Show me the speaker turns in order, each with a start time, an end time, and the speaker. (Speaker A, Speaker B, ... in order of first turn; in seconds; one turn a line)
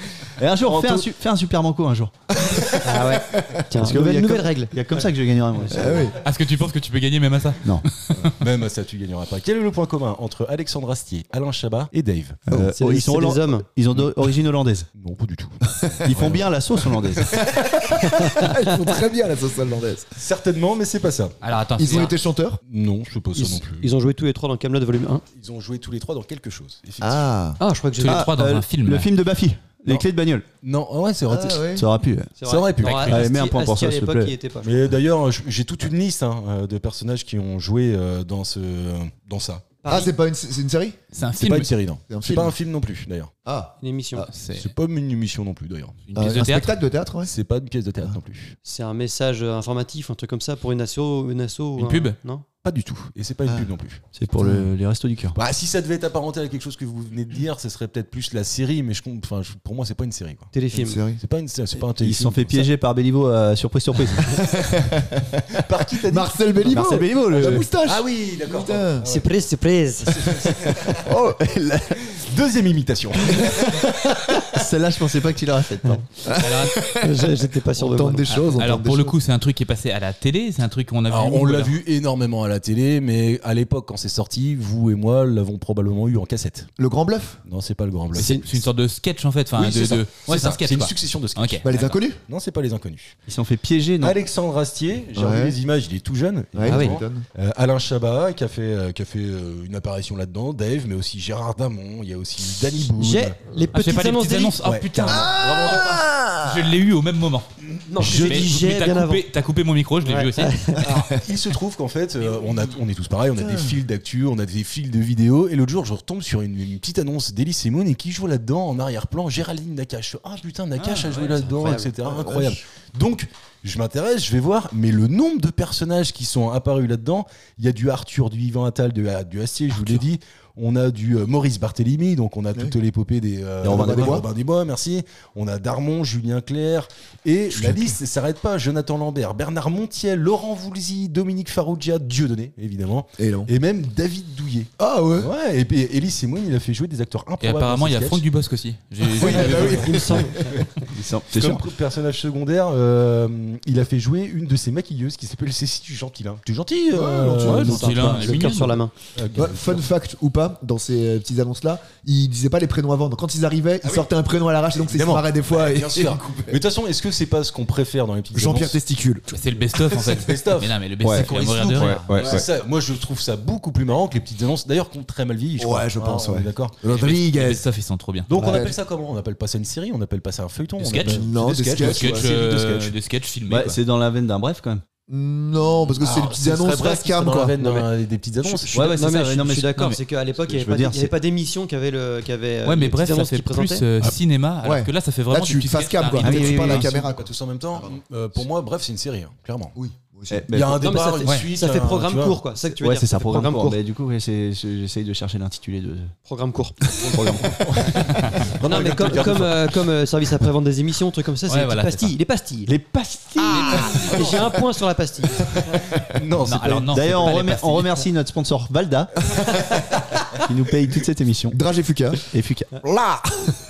Speaker A: 0.4-2.2
Speaker B: 2.4-2.9
Speaker C: 2.5-3.6
Speaker D: 2.8-4.8
Speaker A: 3.8-6.2
Speaker C: 5.7-6.2
Speaker E: 6.2-8.3
Speaker B: 8.2-12.4
Speaker A: 12.5-14.9
Speaker D: 12.7-13.7
Speaker B: 14.9-16.5
Speaker A: 16.0-17.4
Speaker C: 17.3-20.1
Speaker D: 18.0-18.5
Speaker B: 20.2-21.4
Speaker E: 21.4-22.1
Speaker C: 21.8-22.6
Speaker B: 22.7-23.9
Speaker D: 23.3-25.2
Speaker B: 25.3-27.3
Speaker C: 27.0-27.6
Speaker D: 27.6-28.3
Speaker E: 28.0-29.1
Speaker A: 28.1-30.5
Speaker B: 30.6-31.7
Speaker C: 31.3-31.9
Speaker A: 31.7-32.4
Speaker D: 32.4-34.9
Speaker B: 32.4-33.3
Speaker E: 32.8-33.1
Speaker A: 33.1-34.4
Speaker B: 34.6-39.7
Speaker D: 39.8-40.1
Speaker C: 39.9-41.0
Speaker E: 41.1-41.7
Speaker B: 41.4-43.3
Speaker C: 42.1-42.6
Speaker C: 43.5-43.7
Speaker D: 43.8-44.3
Speaker E: 44.2-44.7
Speaker B: 44.5-46.0
Speaker E: 46.1-46.7
Speaker C: 46.1-47.3
Speaker B: 47.2-48.6
Speaker D: 48.6-52.5
Speaker E: 51.8-52.2
Speaker B: 52.6-54.0
Speaker C: 53.5-53.7
Speaker A: 54.1-55.4
Speaker C: 54.4-54.7
Speaker B: 55.4-60.5
Speaker D: 60.5-61.0
Speaker C: 60.7-61.2
Speaker B: 61.1-62.7
Speaker A: 62.0-64.4
Speaker C: 64.3-69.1
Speaker B: 65.5-66.8
Speaker A: 66.7-67.7
Speaker B: 67.3-69.5
Speaker D: 69.0-70.7
Speaker B: 70.1-71.2
Speaker C: 70.4-72.0
Speaker B: 72.0-74.0
Speaker D: 73.9-74.3
Speaker A: 74.5-76.1
Speaker C: 76.2-79.2
Speaker E: 76.4-76.8
Speaker D: 77.0-78.4
Speaker E: 78.3-81.8
Speaker B: 81.1-86.7
Speaker C: 86.8-87.4
Speaker B: 87.5-88.6
Speaker E: 88.1-91.7
Speaker D: 88.2-88.5
Speaker B: 89.6-93.2
Speaker C: 91.6-92.2
Speaker A: 93.3-94.2
Speaker B: 94.0-103.4
Speaker C: 95.2-95.6
Speaker C: 96.5-97.3
Speaker D: 96.7-97.0
Speaker D: 103.0-104.6
Speaker E: 103.7-107.5
Speaker B: 104.6-106.0
Speaker C: 105.1-106.8
Speaker D: 107.9-109.2
Speaker B: 108.0-108.5
Speaker E: 108.0-110.8
Speaker D: 110.0-111.1
Speaker C: 110.9-111.2
Speaker B: 111.1-148.2
Speaker C: 113.3-113.8
Speaker E: 120.8-121.5
Speaker D: 121.6-121.9
Speaker C: 122.0-122.6
Speaker E: 129.7-130.0
Speaker A: 133.6-134.3
Speaker C: 133.6-134.3
Speaker C: 143.2-143.5
Speaker C: 144.8-145.3
Speaker E: 147.4-150.0
Speaker C: 149.2-150.6
Speaker B: 149.2-150.7
Speaker D: 149.3-150.7
Speaker A: 150.9-151.7
Speaker B: 151.3-157.8
Speaker C: 156.9-158.1
Speaker E: 157.4-158.8
Speaker D: 157.4-158.9
Speaker B: 159.2-159.8
Speaker C: 159.3-166.6
Speaker B: 163.8-164.1
Speaker B: 164.7-168.8
Speaker C: 168.3-170.0
Speaker E: 169.3-172.2
Speaker B: 169.9-176.8
Speaker A: 171.0-172.5
Speaker C: 172.1-172.4
Speaker C: 175.6-177.7
Speaker E: 176.8-178.3
Speaker B: 178.3-182.7
Speaker C: 178.4-178.8
Speaker D: 178.4-178.6
Speaker E: 180.8-181.2
Speaker C: 181.0-182.3
Speaker E: 181.8-183.8
Speaker A: 182.5-182.9
Speaker A: 183.5-184.8
Speaker C: 185.1-187.6
Speaker B: 185.9-189.0
Speaker D: 188.4-193.8
Speaker A: 188.7-191.1
Speaker E: 192.6-196.8
Speaker C: 194.6-198.0
Speaker A: 196.2-196.8
Speaker B: 196.2-199.8
Speaker C: 199.8-200.5
Speaker A: 200.3-201.0
Speaker B: 200.5-202.4
Speaker D: 200.8-203.8
Speaker E: 201.2-201.5
Speaker A: 202.7-206.1
Speaker D: 206.3-206.9
Speaker B: 207.0-209.8
Speaker A: 207.1-207.6
Speaker D: 208.6-212.7
Speaker E: 211.5-212.2
Speaker A: 212.7-214.0
Speaker E: 213.5-214.3
Speaker B: 213.6-214.6
Speaker D: 214.0-215.6
Speaker B: 215.4-217.4
Speaker E: 216.4-218.1
Speaker A: 216.9-219.1
Speaker A: 220.4-221.6
Speaker C: 221.5-222.2
Speaker A: 222.3-222.8